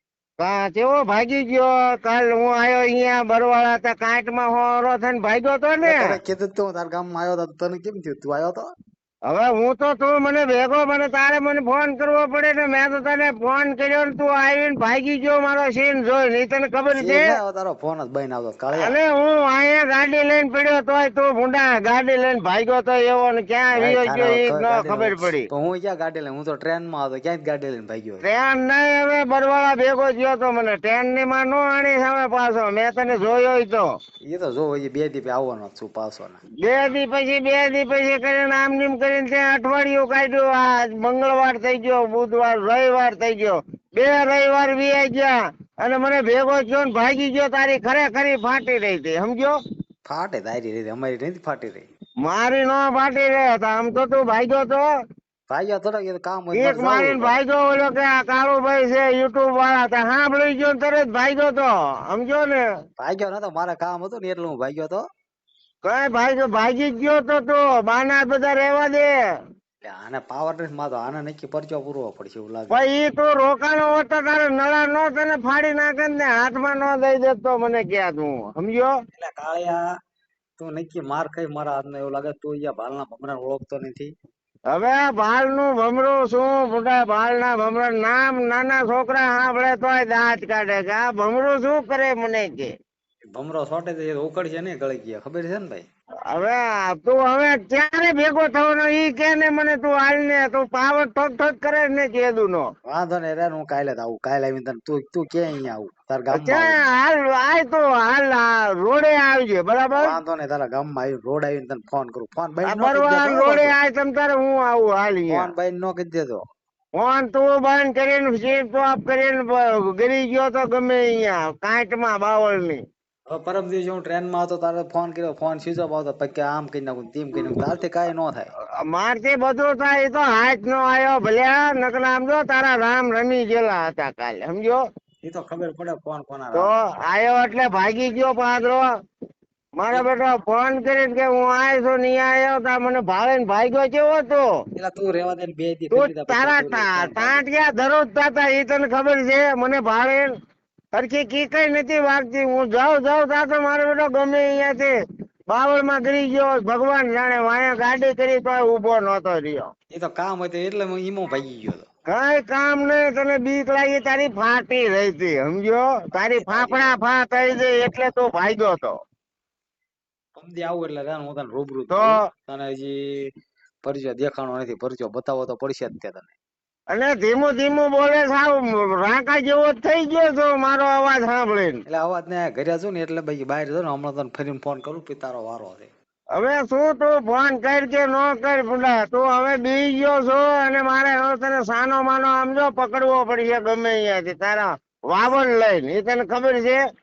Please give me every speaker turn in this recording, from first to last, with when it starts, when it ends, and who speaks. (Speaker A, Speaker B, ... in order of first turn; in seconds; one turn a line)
Speaker A: 0.4-6.1
Speaker B: 5.8-8.7
Speaker A: 9.3-17.2
Speaker B: 16.9-18.9
Speaker A: 18.7-25.4
Speaker B: 23.7-28.2
Speaker A: 28.2-33.9
Speaker B: 34.3-36.4
Speaker A: 36.6-49.6
Speaker B: 50.0-51.9
Speaker A: 52.2-54.9
Speaker B: 55.5-57.4
Speaker A: 56.5-62.6
Speaker B: 63.0-65.0
Speaker A: 65.8-69.2
Speaker B: 69.8-72.9
Speaker A: 72.7-79.0
Speaker B: 79.1-79.8
Speaker B: 80.6-84.1
Speaker A: 84.7-92.7
Speaker B: 93.3-95.9
Speaker A: 96.3-102.7
Speaker B: 102.9-106.8
Speaker A: 106.3-110.1
Speaker B: 110.0-113.8
Speaker A: 112.6-115.5
Speaker B: 115.3-116.4
Speaker A: 117.0-122.8
Speaker B: 123.3-128.5
Speaker A: 128.9-134.8
Speaker B: 135.2-136.7
Speaker A: 136.5-138.8
Speaker A: 139.8-144.5
Speaker B: 144.8-147.4
Speaker A: 145.9-150.3
Speaker A: 150.9-154.9
Speaker A: 155.5-159.7
Speaker B: 159.9-161.8
Speaker A: 162.1-169.0
Speaker B: 166.3-167.0
Speaker B: 170.3-173.3
Speaker A: 171.9-172.2
Speaker B: 173.8-176.3
Speaker A: 176.9-181.8
Speaker B: 181.8-185.9
Speaker A: 186.3-196.8